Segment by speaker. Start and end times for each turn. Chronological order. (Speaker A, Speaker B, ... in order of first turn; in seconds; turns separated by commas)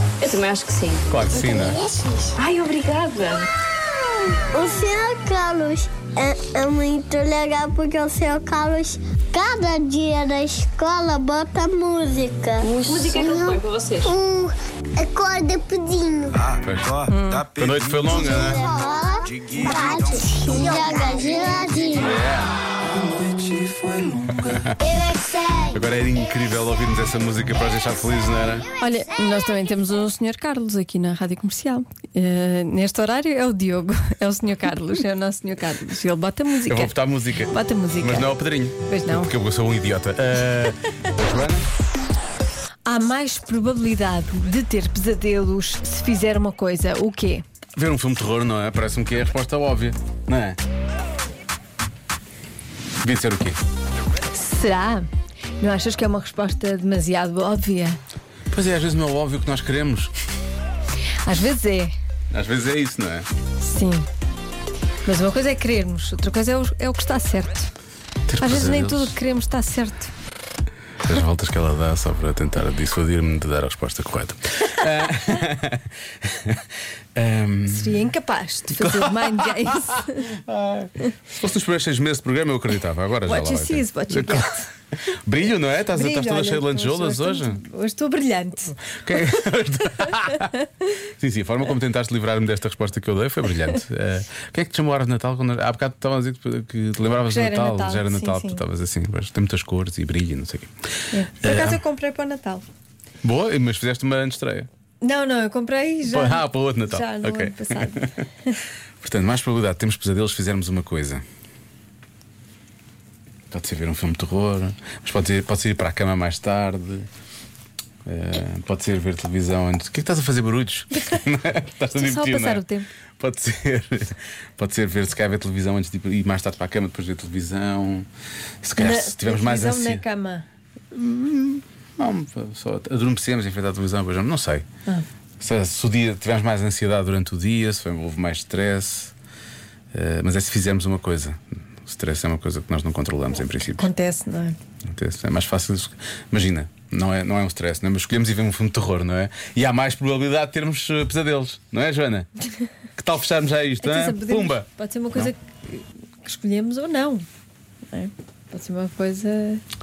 Speaker A: 0.2-1.6, Speaker B: 1.1-1.8, Speaker C: 1.5-1.9, Speaker A: 2.4-3.5, Speaker C: 4.5-16.4, Speaker A: 12.6-14.1, Speaker B: 16.6-18.7, Speaker D: 17.1-17.5, Speaker C: 18.1-22.2, Speaker B: 22.0-22.5, Speaker B: 24.4-24.8, Speaker C: 24.9-25.6, Speaker B: 25.7-28.7, Speaker D: 28.8-38.3, Speaker B: 36.7-41.7, Speaker D: 38.8-39.3, Speaker D: 42.9-47.4, Speaker B: 47.8-50.6, Speaker B: 53.0-53.6, Speaker D: 54.3-55.1, Speaker D: 55.6-58.0, Speaker B: 58.5-60.1, Speaker D: 61.2-61.9, Speaker B: 62.3-63.3, Speaker D: 63.6-64.1, Speaker D: 65.0-67.7, Speaker B: 68.3-69.1, Speaker D: 68.4-70.1, Speaker B: 71.0-76.6, Speaker B: 77.2-78.1, Speaker D: 77.7-80.3, Speaker B: 78.7-84.5, Speaker D: 83.2-84.7, Speaker B: 85.2-87.6, Speaker D: 85.9-88.8, Speaker B: 89.0-90.5, Speaker B: 91.2-100.7, Speaker D: 97.2-98.6, Speaker D: 101.1-102.6, Speaker B: 101.4-101.8, Speaker B: 103.2-104.7, Speaker D: 105.0-108.5, Speaker B: 106.1-108.1, Speaker B: 109.0-111.2, Speaker B: 113.5-117.1, Speaker B: 118.0-122.6, Speaker D: 121.9-122.9, Speaker B: 123.2-128.1, Speaker B: 128.6-130.0, Speaker D: 128.8-130.4, Speaker B: 130.9-134.6, Speaker B: 135.4-139.1, Speaker B: 139.9-143.9, Speaker D: 143.8-144.6, Speaker B: 144.9-152.3, Speaker B: 153.0-155.3, Speaker D: 153.8-157.2, Speaker D: 157.9-159.6